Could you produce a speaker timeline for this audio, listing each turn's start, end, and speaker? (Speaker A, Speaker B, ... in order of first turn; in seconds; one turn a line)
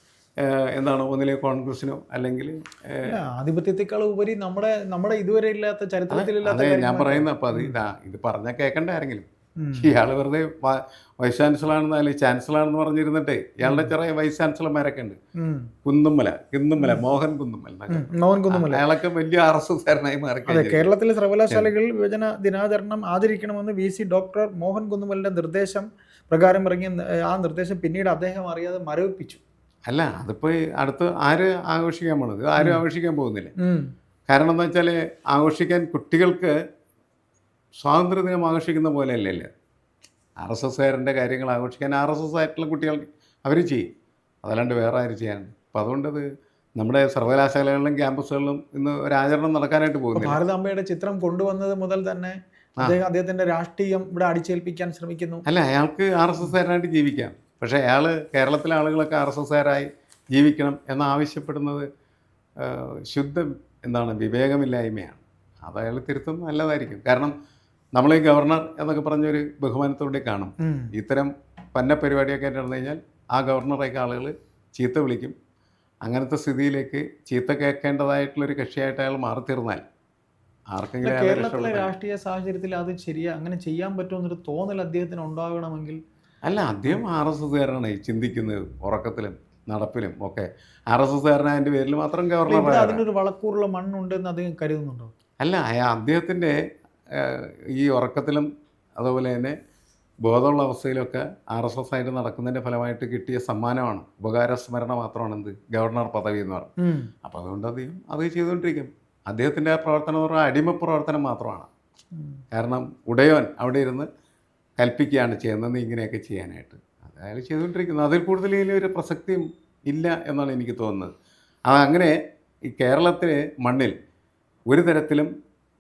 Speaker A: 0.4-3.2
Speaker B: 3.1-7.8
Speaker A: 6.1-15.2
Speaker B: 9.6-9.9
Speaker B: 13.6-13.9
Speaker B: 15.4-15.7
Speaker A: 15.8-20.9
Speaker B: 17.9-18.8
Speaker B: 20.5-29.4
Speaker A: 29.9-33.5
Speaker B: 32.6-32.8
Speaker B: 33.6-33.9
Speaker A: 34.3-36.5
Speaker A: 37.8-39.5
Speaker A: 40.4-43.9
Speaker A: 44.4-46.2
Speaker A: 46.8-50.4
Speaker B: 50.1-55.5
Speaker A: 55.5-61.9
Speaker A: 62.6-67.3
Speaker A: 68.0-75.3
Speaker B: 70.6-70.9
Speaker A: 76.0-79.8
Speaker A: 80.7-81.9
Speaker B: 81.0-86.0
Speaker A: 86.4-93.0
Speaker B: 92.5-95.1
Speaker A: 95.4-96.6
Speaker A: 97.1-99.6
Speaker A: 100.2-106.7
Speaker B: 106.8-107.1
Speaker A: 107.2-111.7
Speaker B: 112.2-112.4
Speaker A: 112.5-114.1
Speaker A: 114.8-121.1
Speaker A: 121.7-122.1
Speaker A: 122.7-124.0
Speaker A: 124.7-125.3